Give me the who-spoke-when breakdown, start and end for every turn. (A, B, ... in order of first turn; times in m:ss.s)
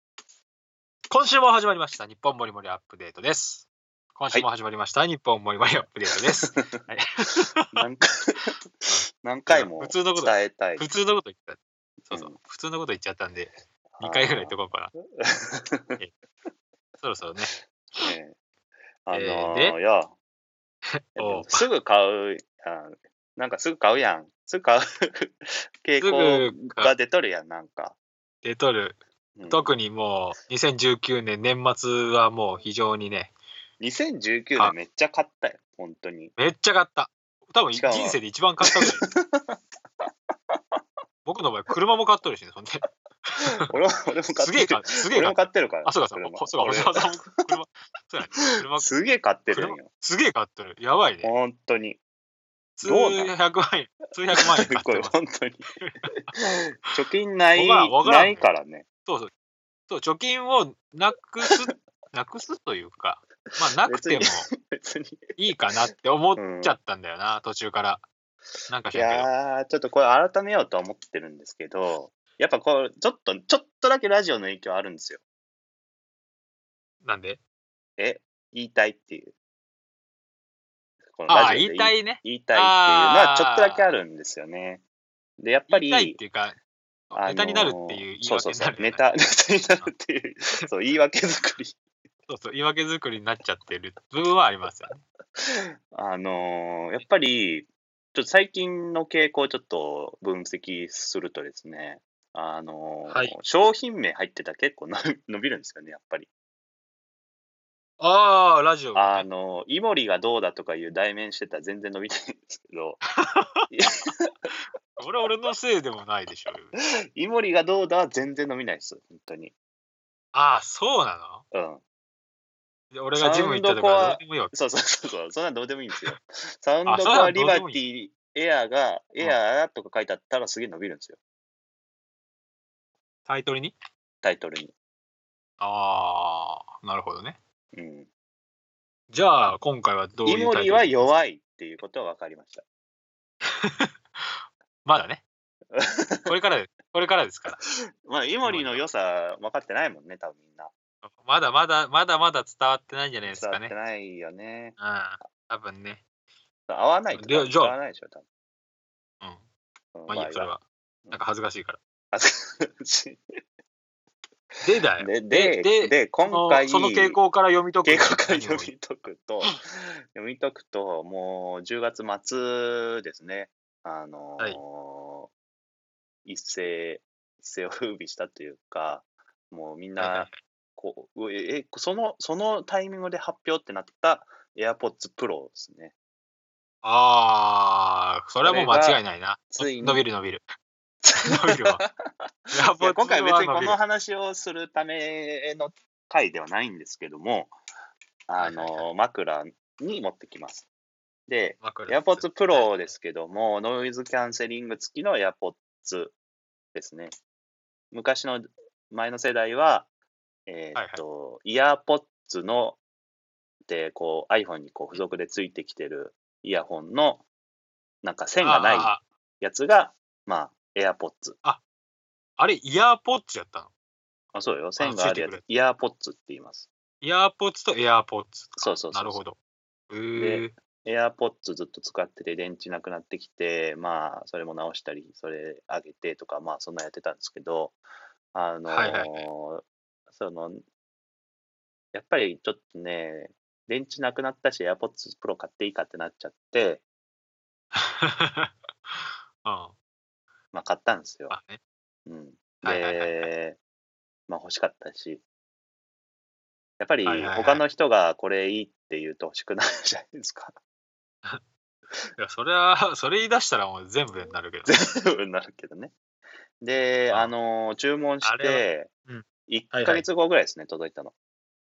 0:01.1-0:07.8 A
0:06.3-0:06.8 B
0:07.7-0:10.9 B
0:08.9-0:14.9 A
0:12.1-0:12.4 B
0:14.0-0:14.6 B
0:15.2-0:16.0 B
0:17.0-0:17.5 A
0:18.0-0:18.4 B
0:19.0-0:20.1 B
0:19.1-0:19.8 A
0:20.9-0:21.7 A
0:21.2-0:28.0 B
0:26.0-0:26.9 A
0:28.4-0:33.3 A
0:29.4-0:29.7 B
0:33.8-0:36.3 B
0:36.4-0:39.1 A
0:37.7-0:39.6 B
0:40.5-0:40.8 B
0:41.2-0:43.7 A
0:43.5-0:47.5 B
0:44.4-0:48.9 A
0:48.4-0:49.9 B
0:49.5-0:51.3 A
0:51.2-0:52.0 B
0:52.8-0:55.2 A
0:52.8-0:53.3 B
0:54.4-0:58.8 B
0:57.5-0:58.5 A
0:59.0-0:59.3 A
0:59.9-1:04.5 A
1:03.5-1:05.4 B
1:05.4-1:08.0 A
1:06.4-1:06.8 B
1:08.7-1:09.3 A
1:08.9-1:15.2 B
1:17.0-1:17.4 A
1:18.0-1:19.3 B
1:21.2-1:24.8 B
1:21.3-1:24.0 A
1:25.4-1:26.2 B
1:25.7-1:26.6 A
1:27.1-1:29.0 A
1:27.1-1:31.8 B
1:32.3-1:35.0 A
1:35.4-1:46.3 B
1:43.1-1:43.4 A
1:48.0-1:49.3 A
1:49.0-1:53.0 B
1:53.2-1:53.7 A
1:53.7-1:54.5 B
1:55.0-1:56.7 A
1:57.2-1:59.5 B
2:00.3-2:01.4 A
2:01.5-2:01.8 B
2:02.9-2:04.5 A
2:03.2-2:11.2 B
2:06.8-2:07.8 A
2:13.3-2:13.8 A
2:14.2-2:14.7 B
2:15.6-2:17.4 A
2:17.7-2:18.1 B
2:19.1-2:21.1 A
2:20.3-2:22.6 B
2:23.4-2:25.2 A
2:25.7-2:26.3 B
2:26.3-2:27.6 A
2:28.0-2:30.7 B
2:28.4-2:28.8 A
2:31.0-2:33.7 A
2:33.3-2:34.8 B
2:34.8-2:36.0 A
2:36.7-2:38.2 B
2:37.2-2:37.8 A
2:40.0-2:40.5 B
2:40.1-2:41.8 A
2:42.1-2:43.2 B
2:44.6-2:48.7 A
2:45.0-2:47.2 B
2:47.8-2:55.3 B
2:56.2-3:05.9 B
3:00.0-3:00.4 A
3:06.8-3:10.5 A
3:08.4-3:10.0 B
3:11.0-3:17.6 B
3:11.2-3:11.8 A
3:12.5-3:13.8 A
3:18.3-3:20.7 B
3:18.4-3:18.9 A
3:21.3-3:26.2 B
3:21.6-3:22.9 A
3:26.7-3:27.2 B
3:27.9-3:29.9 B
3:30.5-3:32.8 B
3:30.8-3:31.0 A
3:33.7-3:37.2 B
3:38.0-3:41.4 B
3:38.4-3:39.0 A
3:42.4-3:43.7 A
3:44.3-3:46.7 B
3:44.8-3:45.4 A
3:47.0-3:49.4 A
3:48.6-3:49.2 B
3:49.9-3:50.6 A
3:50.2-3:57.8 B
3:58.3-4:00.6 B
3:58.7-3:59.3 A
4:01.9-4:06.8 B
4:07.7-4:09.7 A
4:10.5-4:11.4 B
4:11.3-4:11.6 A
4:12.1-4:13.6 B
4:12.6-4:13.3 A
4:14.3-4:15.2 B
4:16.8-4:20.6 B
4:17.0-4:17.6 A
4:22.2-4:24.8 A
4:24.7-4:25.9 B
4:26.6-4:28.9 B
4:28.2-4:30.0 A
4:29.5-4:31.1 B